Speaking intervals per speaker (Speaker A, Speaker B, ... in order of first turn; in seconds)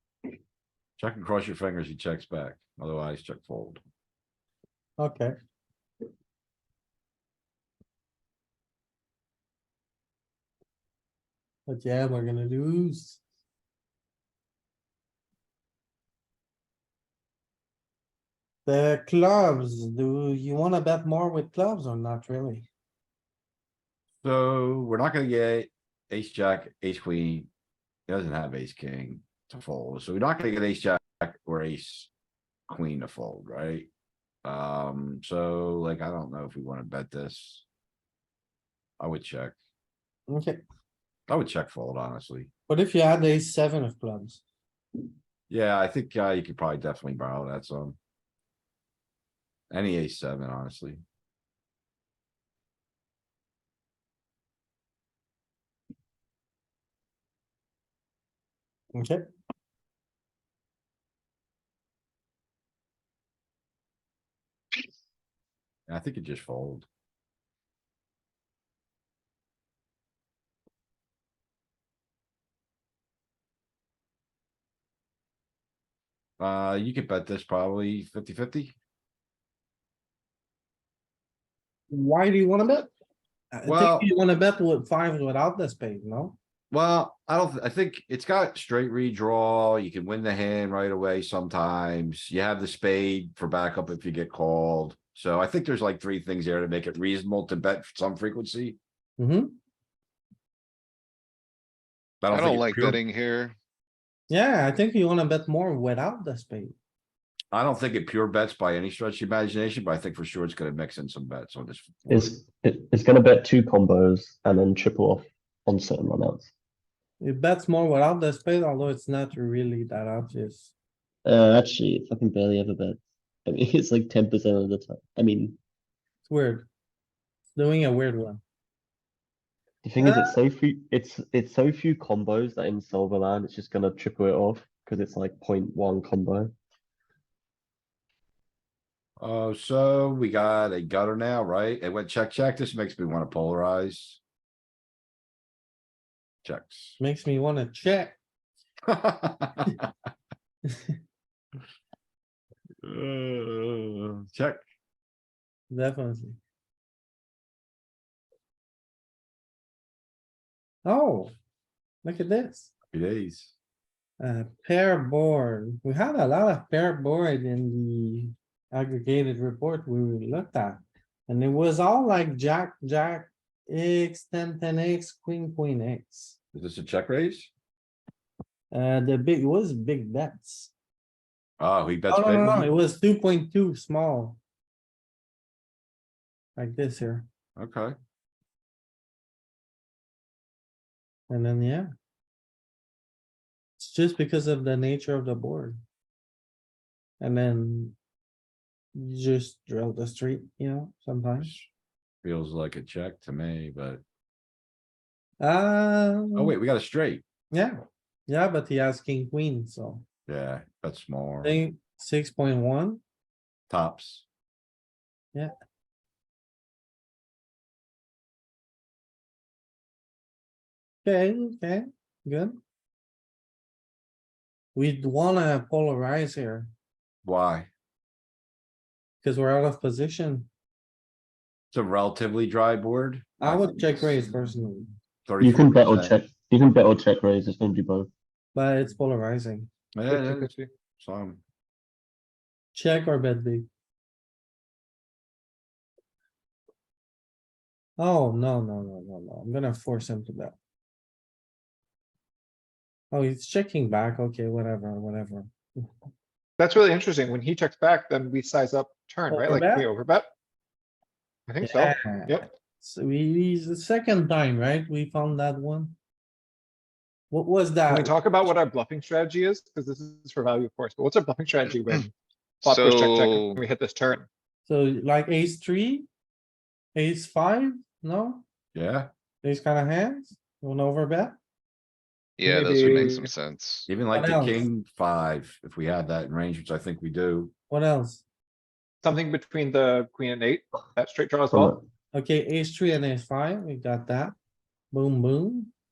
Speaker A: 1.0-3.8, 24.2-27.5, 28.1-32.1, 32.7-33.9, 34.4-37.6, 39.0-39.6, 41.3-42.5, 45.5-48.0, 49.7-51.0, 65.9-66.9, 76.4-78.8, 83.6-84.1, 86.7-98.8, 102.2-103.0, 107.5-112.3, 126.3-126.6, 139.2-144.2, 146.4-147.0, 148.9-149.9, 152.8-154.6, 162.8-163.5, 176.6-177.5, 181.6-182.8, 187.6-187.9, 201.4-201.7, 202.2-204.0, 206.3-207.2, 210.3-211.6, 213.7-214.2, 227.2-227.7, 231.7-234.7, 235.2-236.2, 239.9-241.4, 278.8-279.1, 283.9-287.5
Speaker B: 5.0-5.3, 11.7-13.2, 18.7-22.7, 40.3-40.6, 42.7-44.4, 59.0-59.2, 81.9-82.9, 83.5-86.4, 99.2-99.5, 104.3-106.8, 117.2-120.7, 126.3-126.6, 127.6-128.4, 130.0-130.3, 147.0-148.1, 155.7-156.4, 160.8-161.3, 162.0-162.8, 164.2-176.4, 178.7-180.7, 181.7-184.4, 186.6-187.3, 191.3-191.9, 193.8-195.8, 197.2-197.9, 198.9-201.5, 205.4-206.5, 208.3-210.1, 211.4-213.0, 221.0-222.6, 224.8-226.7, 229.2-230.5, 233.4-234.9, 238.6-239.7, 242.7-243.7, 248.0-250.6, 253.1-255.5, 259.4-259.8, 261.9-262.3, 262.8-265.9, 267.3-267.9, 274.7-276.1, 276.9-278.4, 279.4-281.4, 284.1-284.6, 287.7-288.2, 292.1-294.3, 294.9-295.7
Speaker C: 102.3-103.6, 272.6-273.6, 282.4-283.9
Speaker D: 112.1-116.5, 121.2-125.6, 129.8-136.5, 235.4-238.1, 291.5-291.8
Speaker E: 240.1-240.7, 256.6-260.3, 261.5-262.5, 267.9-274.3, 282.4-283.3, 289.0-291.8